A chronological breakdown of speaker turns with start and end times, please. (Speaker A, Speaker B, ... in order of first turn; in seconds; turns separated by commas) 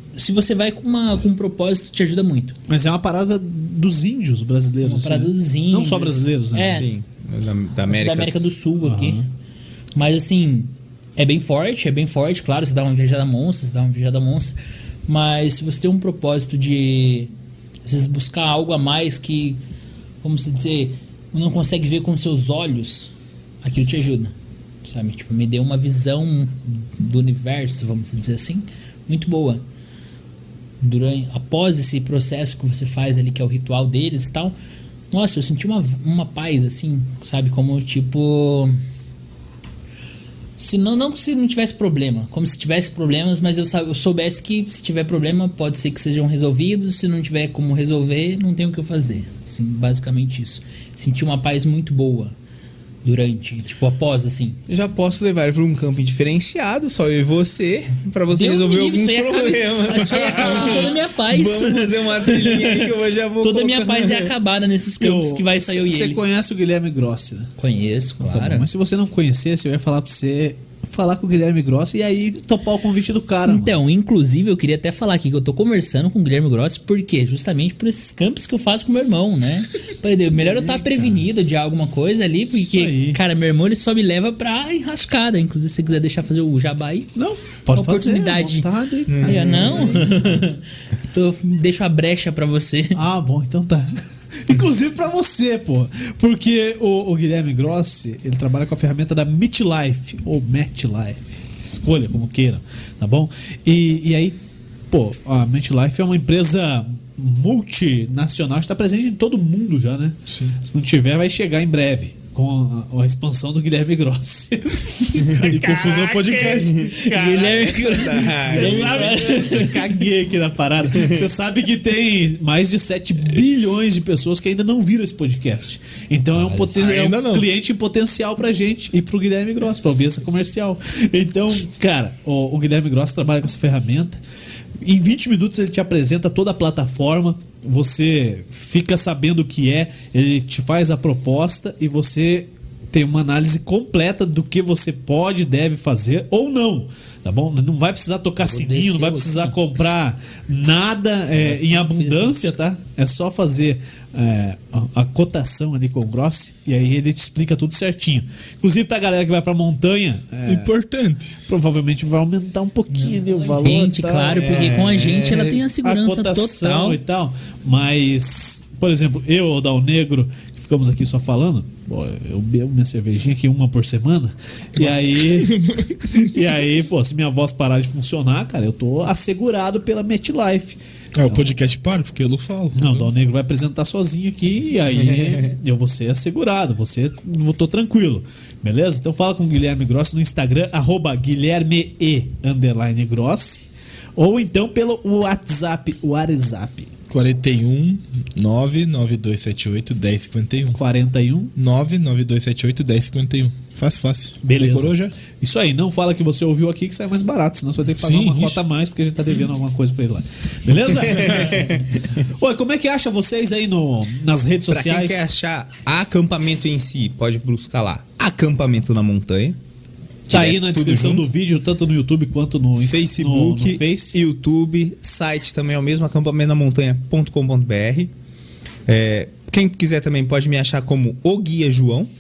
Speaker A: 0.2-2.6, Speaker B: 2.7-6.8, Speaker A: 4.8-6.9, Speaker C: 6.7-8.5, Speaker A: 7.9-9.2, Speaker B: 8.8-9.3, Speaker A: 9.9-14.6, Speaker A: 15.1-17.3, Speaker A: 17.9-19.6, Speaker A: 20.2-23.1, Speaker A: 23.6-24.3, Speaker A: 24.8-29.6, Speaker A: 30.8-34.5, Speaker A: 35.1-38.8, Speaker A: 40.6-52.3, Speaker A: 53.0-54.6, Speaker C: 54.7-64.3, Speaker A: 58.3-66.2, Speaker B: 65.0-67.5, Speaker A: 67.6-68.7, Speaker B: 68.2-73.8, Speaker A: 73.5-87.1, Speaker B: 80.5-81.2, Speaker B: 82.5-83.2, Speaker B: 87.2-90.2, Speaker A: 87.7-93.0, Speaker C: 89.1-89.7, Speaker B: 92.9-104.4, Speaker B: 104.9-134.2, Speaker D: 110.3-110.6, Speaker D: 115.3-116.9, Speaker C: 116.5-119.3, Speaker A: 117.0-120.0, Speaker C: 120.9-121.2, Speaker A: 126.4-126.8, Speaker D: 126.8-127.5, Speaker B: 134.8-160.7, Speaker A: 148.4-149.6, Speaker A: 151.4-152.5, Speaker D: 160.4-161.4, Speaker B: 161.5-181.5, Speaker A: 162.9-167.0, Speaker C: 164.3-165.6, Speaker D: 174.8-176.4, Speaker D: 181.2-183.1, Speaker B: 182.8-196.9, Speaker D: 197.1-200.8, Speaker B: 200.7-201.5, Speaker D: 201.6-205.1, Speaker B: 204.4-215.2, Speaker D: 207.9-208.6, Speaker C: 211.0-211.9, Speaker C: 214.7-219.6, Speaker C: 220.3-221.3, Speaker B: 220.3-224.2, Speaker C: 222.8-228.1, Speaker C: 228.9-232.1